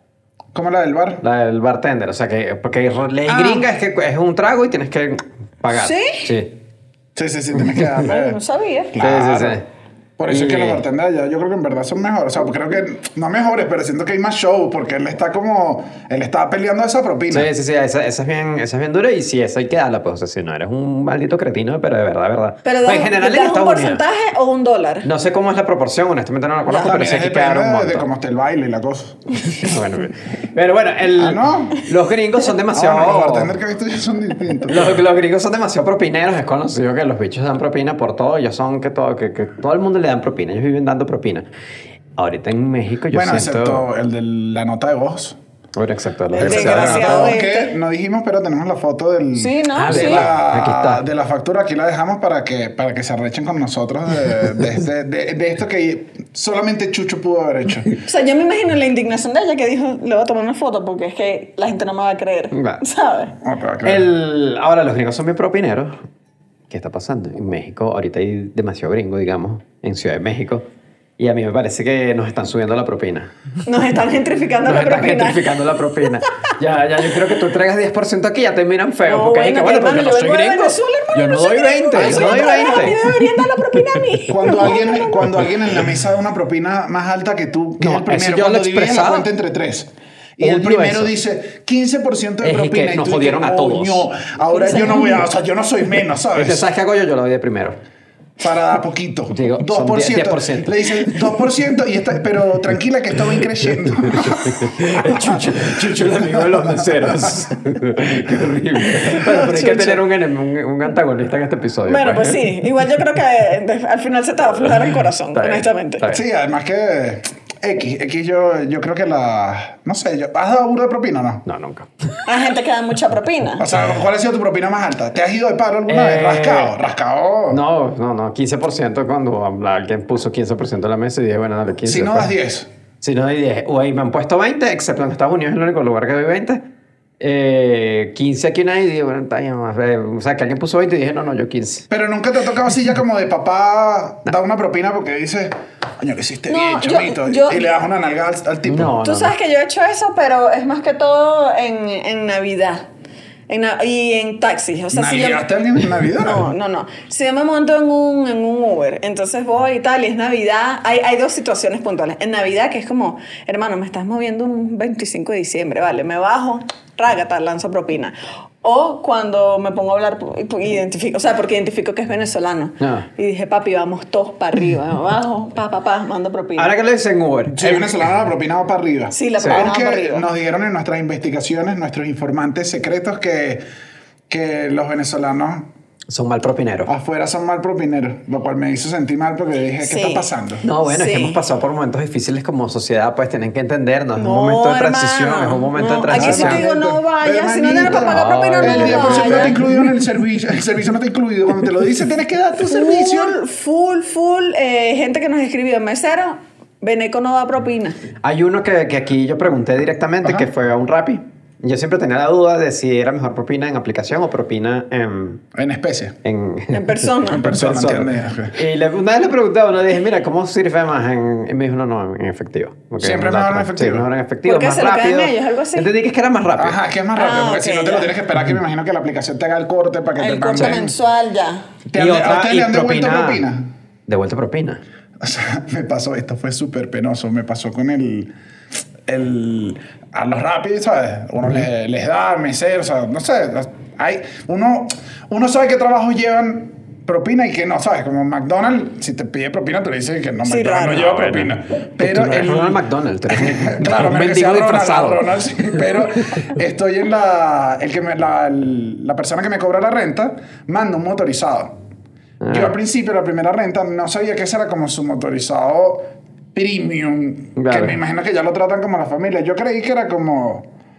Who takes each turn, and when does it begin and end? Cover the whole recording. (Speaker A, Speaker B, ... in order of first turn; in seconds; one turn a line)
Speaker A: 0.5-1.2
Speaker B: 1.2-6.5
Speaker C: 5.7-6.3
Speaker A: 7.2-8.4
Speaker C: 8.0-8.9
Speaker A: 8.9-9.6
Speaker B: 9.0-9.6
Speaker A: 10.2-17.5
Speaker B: 10.3-10.8
Speaker B: 17.3-24.0
Speaker C: 22.6-25.1
Speaker B: 25.0-28.1
Speaker A: 26.7-29.5
Speaker B: 29.6-33.5
Speaker A: 31.1-31.8
Speaker A: 32.7-35.0
Speaker B: 34.7-41.5
Speaker B: 42.2-43.8
Speaker A: 43.1-45.4
Speaker B: 45.7-47.4
Speaker C: 46.3-47.7
Speaker A: 46.4-57.9
Speaker C: 49.3-50.3
Speaker B: 49.8-51.0
Speaker C: 58.0-63.3
Speaker B: 62.5-62.8
Speaker A: 63.4-64.1
Speaker B: 63.8-65.9
Speaker B: 66.7-70.6
Speaker B: 71.2-73.3
Speaker C: 73.6-75.4
Speaker B: 74.6-83.2
Speaker C: 79.0-85.3
Speaker A: 82.0-82.7
Speaker A: 84.3-96.7
Speaker B: 87.8-89.3
Speaker B: 90.4-91.1
Speaker B: 92.4-94.0
Speaker C: 94.5-95.2
Speaker B: 96.3-97.8
Speaker A: 98.4-107.3
Speaker B: 99.3-101.2
Speaker B: 104.0-112.6
Speaker C: 109.0-110.0
Speaker C: 111.8-116.0
Speaker B: 115.3-116.2
Speaker A: 116.1-121.4
Speaker B: 121.5-121.9
Speaker C: 122.2-123.7
Speaker A: 123.6-127.6
Speaker B: 125.9-126.7
Speaker B: 127.5-132.3
Speaker A: 131.8-132.7
Speaker B: 133.0-136.6
Speaker B: 137.2-141.8
Speaker A: 141.9-149.0
Speaker C: 146.5-147.7
Speaker B: 148.7-149.3
Speaker C: 149.0-152.8
Speaker C: 153.5-155.5
Speaker A: 154.9-156.5
Speaker C: 156.1-176.7
Speaker B: 172.8-173.1
Speaker B: 176.6-177.9
Speaker A: 177.5-183.6
Speaker C: 179.1-180.2
Speaker A: 184.3-185.7
Speaker B: 186.1-186.9
Speaker A: 186.8-190.6
Speaker C: 189.8-190.3
Speaker B: 190.6-196.6
Speaker C: 190.8-191.4
Speaker C: 194.2-199.6
Speaker A: 196.1-203.4
Speaker B: 197.9-199.8
Speaker C: 202.7-208.0
Speaker B: 208.2-215.4
Speaker A: 210.2-210.5
Speaker A: 215.5-216.2
Speaker B: 216.2-226.8
Speaker C: 216.7-217.4
Speaker A: 217.3-218.6
Speaker A: 223.0-224.1
Speaker C: 224.4-225.9
Speaker A: 226.6-230.9
Speaker C: 227.2-228.1
Speaker C: 230.2-231.6
Speaker A: 231.9-233.7
Speaker B: 231.9-233.4
Speaker B: 234.1-234.8
Speaker A: 235.2-238.3
Speaker A: 239.1-261.7
Speaker C: 250.4-251.2
Speaker B: 251.1-255.8
Speaker B: 262.4-262.7
Speaker A: 262.5-270.7
Speaker B: 267.6-267.9